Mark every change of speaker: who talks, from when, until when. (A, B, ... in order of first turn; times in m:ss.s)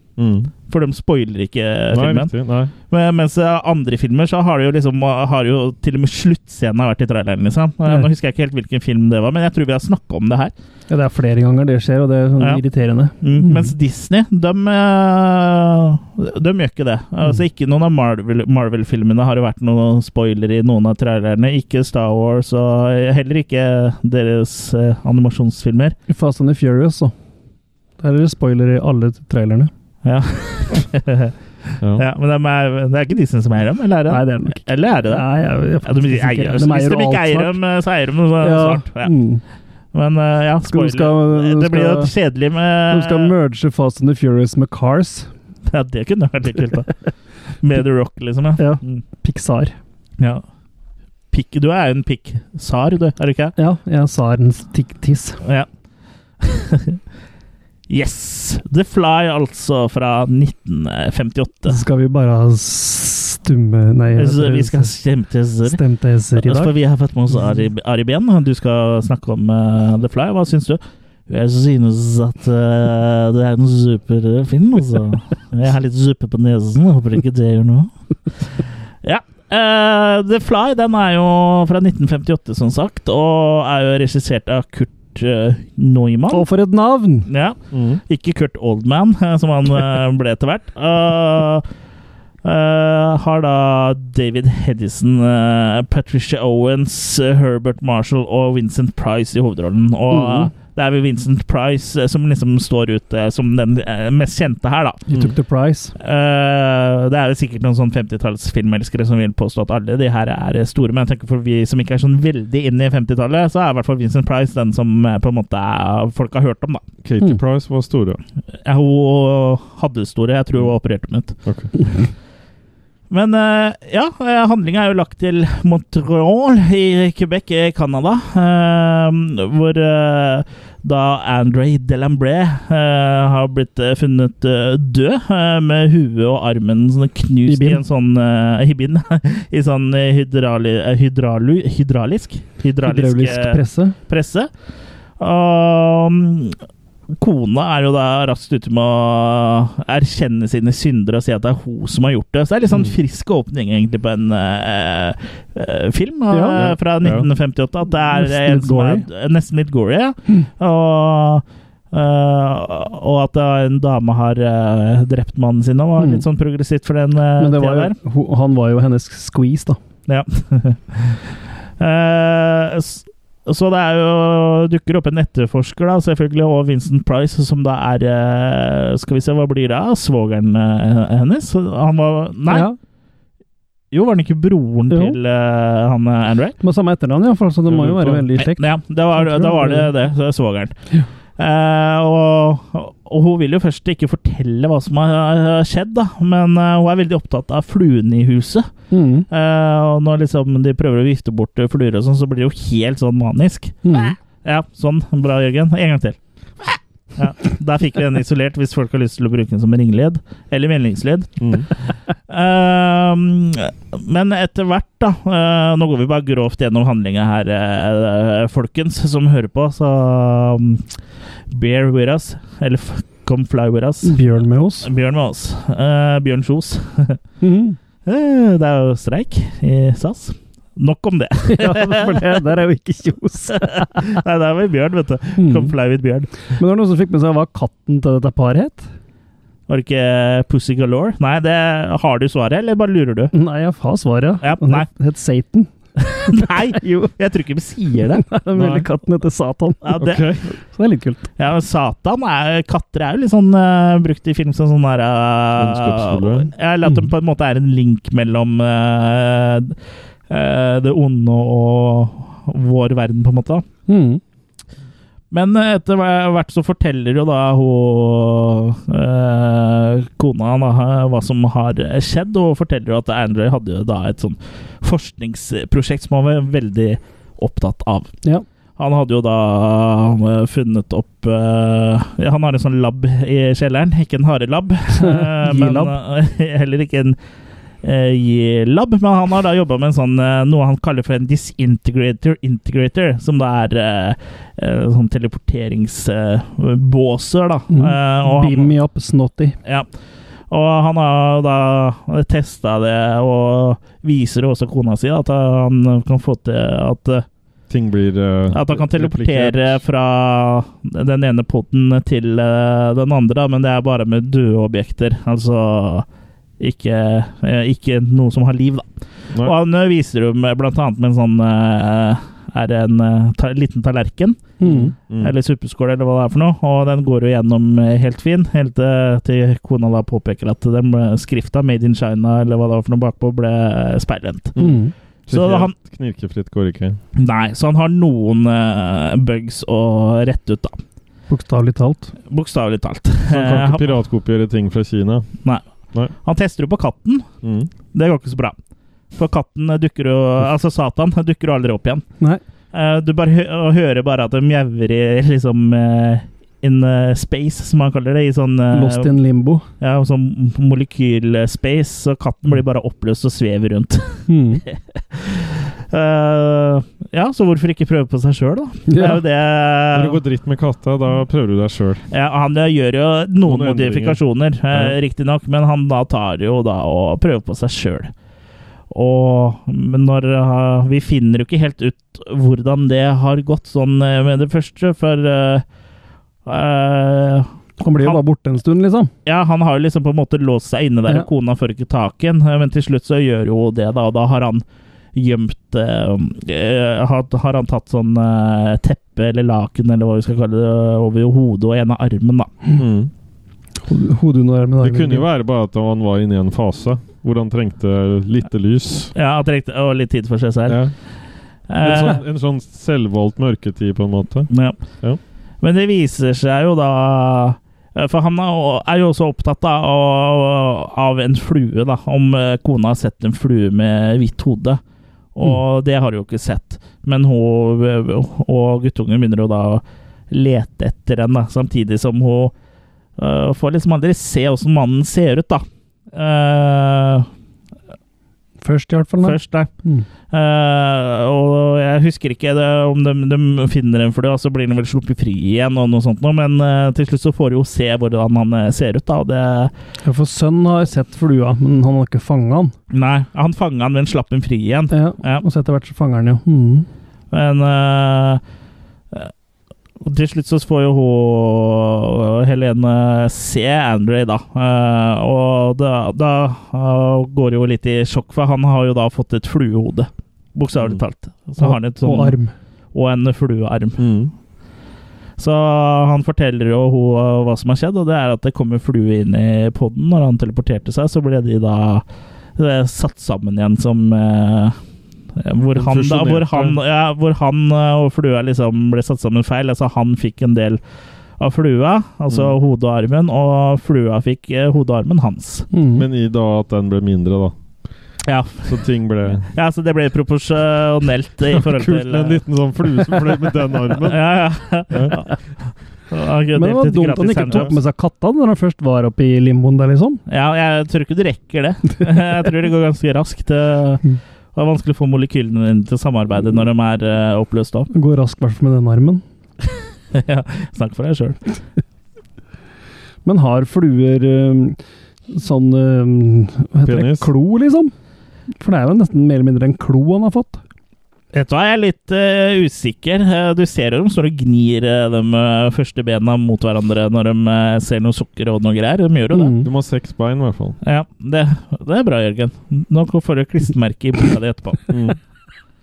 0:00.2-0:00.5 A
0:00.7-0:02.3 B
0:01.9-0:02.7 A
0:02.9-0:10.5 B
0:10.9-0:13.7 C
0:13.2-0:26.0 B
0:26.1-0:27.1 C
0:28.0-0:29.7 C
0:30.0-0:31.3 B
0:32.0-0:35.3 B
0:34.1-0:37.6 C
0:35.8-0:39.1 B
0:38.4-0:39.4 C
0:39.9-0:43.3 B
0:40.7-0:42.1 C
0:42.9-0:45.3 C
0:45.7-0:46.9 B
0:47.6-0:49.0 B
0:48.6-0:49.8 C
0:50.2-0:50.4 B
0:51.3-0:53.5 B
0:53.6-0:55.4 C
0:56.4-0:57.0 B
0:57.9-1:01.8 B
1:01.7-1:04.9 C
1:04.2-1:05.8 B
1:05.7-1:06.7 C
1:06.4-1:17.9 B
1:18.5-1:26.5 B
1:26.3-1:27.3 C
1:27.3-1:31.6 B
1:27.7-1:28.0 A
1:32.4-1:45.0 B
1:40.1-1:40.5 C
1:45.1-1:45.9 C
1:46.0-1:56.8 B
1:57.0-1:58.2 A
1:58.6-2:01.3 B
2:01.4-2:01.7 A
2:03.1-2:24.5 B
2:17.5-2:17.8 C
2:22.8-2:24.0 C
2:25.2-2:26.6 B
2:27.2-2:48.0 B
2:36.3-2:36.6 C
2:36.6-2:37.3 A
2:38.1-2:39.0 C
2:46.0-2:46.2 C
2:47.4-2:49.8 C
2:50.1-2:51.2 B
2:51.8-3:02.7 B
3:02.5-3:02.8 C
3:03.9-3:06.6 B
3:04.9-3:05.2 C
3:06.6-3:09.9 C
3:07.7-3:08.3 A
3:08.4-3:10.8 B
3:11.4-3:18.7 B
3:18.9-3:19.3 C
3:19.3-3:31.7 B
3:23.8-3:24.2 C
3:31.4-3:31.7 A
3:32.3-3:40.9 B
3:41.5-3:44.2 B
3:44.0-3:44.9 C
3:44.8-3:47.2 B
3:47.4-3:47.8 C
3:48.1-3:52.3 B
3:51.5-3:54.2 C
3:53.5-3:56.5 B
3:55.4-3:55.7 C
3:56.6-3:58.9 C
3:59.7-4:03.3 B
4:03.3-4:05.7 C
4:04.4-4:04.9 B
4:06.0-4:08.3 B
4:06.3-4:07.1 C
4:08.2-4:09.9 C
4:08.6-4:08.9 A
4:09.8-4:10.2 B
4:10.0-4:10.4 A
4:10.7-4:11.2 C
4:11.4-4:19.8 B
4:15.6-4:16.5 A
4:20.3-4:23.6 B
4:23.9-4:24.2 C
4:25.3-4:38.1 B
4:38.8-4:47.2 B
4:45.0-4:45.9 C
4:47.8-4:58.7 B
4:57.7-4:59.6 C
5:00.5-5:07.2 B
5:07.7-5:09.8 A
5:08.5-5:16.1 B
5:16.6-5:18.8 B
5:19.4-5:24.6 B
5:24.6-5:24.9 C
5:24.6-5:25.3 A
5:25.2-5:34.6 B
5:34.6-5:37.0 A
5:34.6-5:34.9 C
5:35.3-5:35.7 B
5:37.2-5:40.8 B
5:41.3-5:42.1 C
5:42.3-5:43.9 B
5:43.3-5:45.3 A
5:46.2-5:47.2 B
5:47.4-5:47.7 A
5:47.9-5:48.6 B
5:49.1-5:52.0 B
5:52.7-5:59.1 B
5:58.7-5:59.6 C
5:59.8-6:10.2 B
6:04.3-6:04.6 C
6:08.9-6:09.2 C
6:09.9-6:12.0 A
6:12.1-6:18.1 B
6:13.4-6:15.0 A
6:18.9-6:25.6 B
6:26.5-6:28.2 B
6:27.8-6:29.1 C
6:29.3-6:34.6 B
6:35.2-6:42.5 B
6:42.8-6:43.1 A
6:43.9-6:45.3 C
6:44.8-6:49.1 A
6:49.2-6:50.9 B
6:50.7-6:50.9 A
6:51.7-6:52.2 B
6:51.8-6:54.5 A
6:54.5-6:54.8 B
6:55.6-7:04.8 B
7:05.4-7:12.5 B
7:13.2-7:17.3 B
7:18.6-7:20.1 C
7:19.2-7:19.7 B
7:20.3-7:29.7 B
7:30.0-7:32.7 C
7:32.9-7:35.4 B
7:34.9-7:36.9 C
7:37.3-7:38.4 B
7:40.0-7:52.4 B
7:51.6-7:52.5 C
7:52.9-7:54.0 B
7:54.0-7:54.3 A
7:55.4-8:02.0 B
8:02.6-8:04.8 B
8:05.4-8:10.8 B
8:05.8-8:06.8 A
8:11.4-8:15.7 B
8:12.3-8:12.6 A
8:15.7-8:16.0 C
8:16.0-8:17.6 A
8:18.3-8:18.8 B
8:18.6-8:19.5 A
8:19.4-8:22.4 B
8:21.5-8:24.4 A
8:24.0-8:25.4 B
8:24.9-8:25.2 A
8:26.1-8:27.7 B
8:26.6-8:30.2 C
8:30.3-8:34.0 B
8:34.6-8:37.9 B
8:37.9-8:39.2 C
8:40.1-8:41.4 B
8:43.2-8:44.8 C
8:45.3-8:47.9 C
8:46.8-8:47.3 A
8:48.6-8:50.6 C
8:51.3-8:59.6 B
8:59.3-8:59.7 C
8:59.6-9:00.8 A
9:00.8-9:05.0 B
9:04.9-9:05.2 A